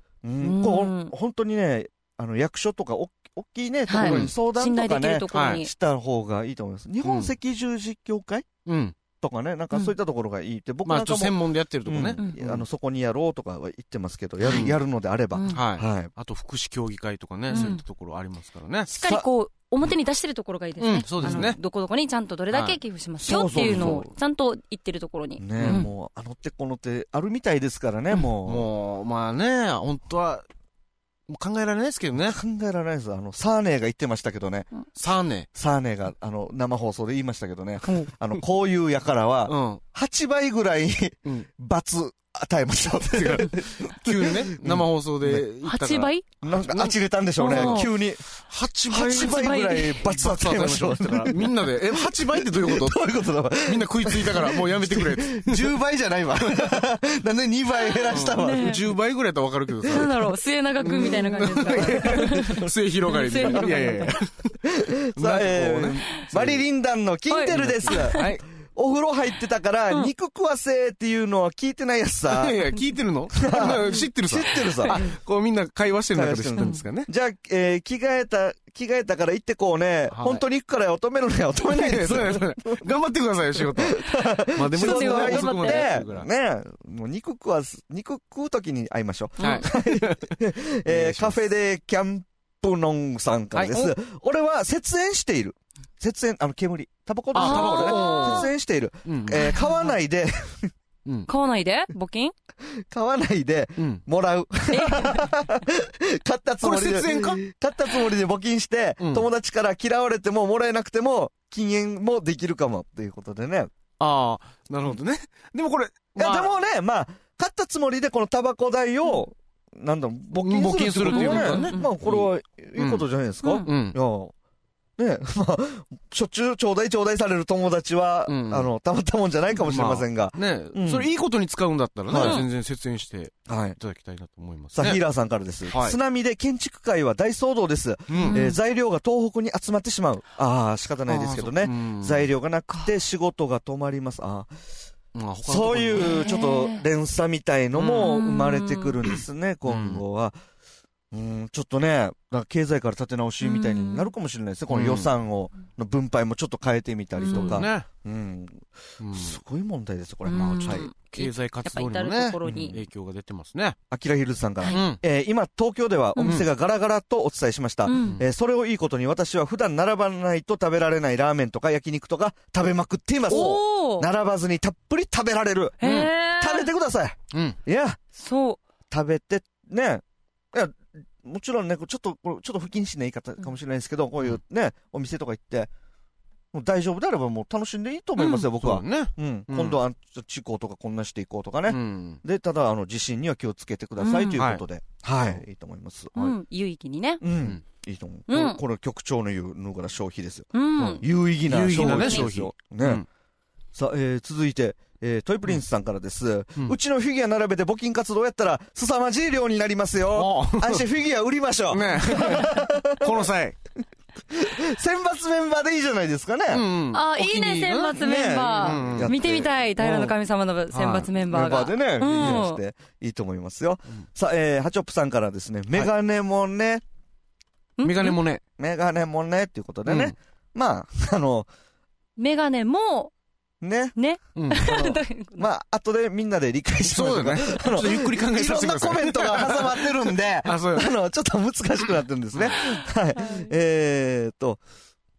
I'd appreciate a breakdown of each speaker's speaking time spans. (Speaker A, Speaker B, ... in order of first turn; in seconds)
Speaker A: 0.2-8.5, 9.2-16.1, 21.2-21.5, 23.2-24.1, 25.4-28.7, 32.3-34.7, 35.5-45.4, 46.4-48.2, 48.9-58.8, 61.5-62.7, 63.4-63.8, 64.6-72.6, 73.3-75.0, 76.1-82.9, 83.6-100.7, 102.7-113.7, 116.2-124.3, 125.0-131.1, 132.1-132.5, 133.5-133.8, 134.8-144.5, 145.5-150.4, 151.1-160.9, 162.4-162.8, 163.9-178.0, 178.9-180.0, 180.5-185.7, 186.5-196.3, 197.2-203.0, 203.8-213.3, 214.3-216.7, 217.9-220.2, 221.3-226.8, 228.6-231.5, 233.6-233.9, 234.5-244.6
Speaker B: 0.4-1.1, 3.9-5.7, 15.3-15.6, 17.5-17.8, 18.9-25.9, 45.6-46.2, 47.4-47.9, 48.9-50.0, 57.9-58.9, 59.9-64.2, 67.3-68.3, 84.7-85.9, 89.4-89.7, 97.3-98.5, 101.3-102.3, 104.7-105.3, 121.1-121.9, 123.4-123.7, 132.2-132.5, 138.2-138.6, 146.0-146.8, 147.9-149.0, 153.4-154.1, 157.2-157.7, 160.3-162.8, 166.2-166.4, 167.9-168.2, 173.3-174.1, 175.8-176.7, 178.2-178.6, 194.0-194.4, 196.2-197.2, 198.3-198.6, 200.5-201.1, 201.7-202.3, 216.9-222.6, 227.8-228.2, 232.2-233.1, 234.0-235.5, 243.2-243.5
Speaker C: 4.0-4.3, 5.3-5.6, 7.0-7.3, 8.7-8.9, 10.8-12.6, 14.4-14.8, 15.5-18.9, 20.8-21.6, 22.5-22.8, 23.5-24.0, 25.6-25.9, 28.2-30.4, 31.3-32.4, 35.0-35.5, 39.5-39.8, 43.1-53.1, 53.6-55.7, 58.1-60.2, 60.8-64.5, 65.2-66.6, 67.5-68.4, 72.3-77.1, 80.1-80.4, 81.7-86.3, 89.4-91.4, 93.5-93.8, 97.3-98.5, 99.0-99.5, 103.8-104.0, 106.6-107.4, 109.0-109.3, 114.0-116.5, 120.3-123.0, 123.7-124.0, 128.3-128.7, 129.6-135.0, 135.7-136.0, 138.1-138.4, 141.1-142.3, 145.1-146.3, 147.8-148.1, 149.7-150.0, 154.7-155.1, 157.3-157.9, 159.0-159.4, 160.3-163.8, 164.7-165.0, 168.0-168.2, 175.8-176.1, 177.3-177.6, 188.2-189.8, 191.7-192.2, 194.4-194.6, 201.5-203.1, 210.1-210.9, 211.7-213.6, 216.5-219.1, 220.7-221.1, 222.1-222.4, 227.8-228.4, 229.8-230.2, 234.4-234.7, 236.8-240.9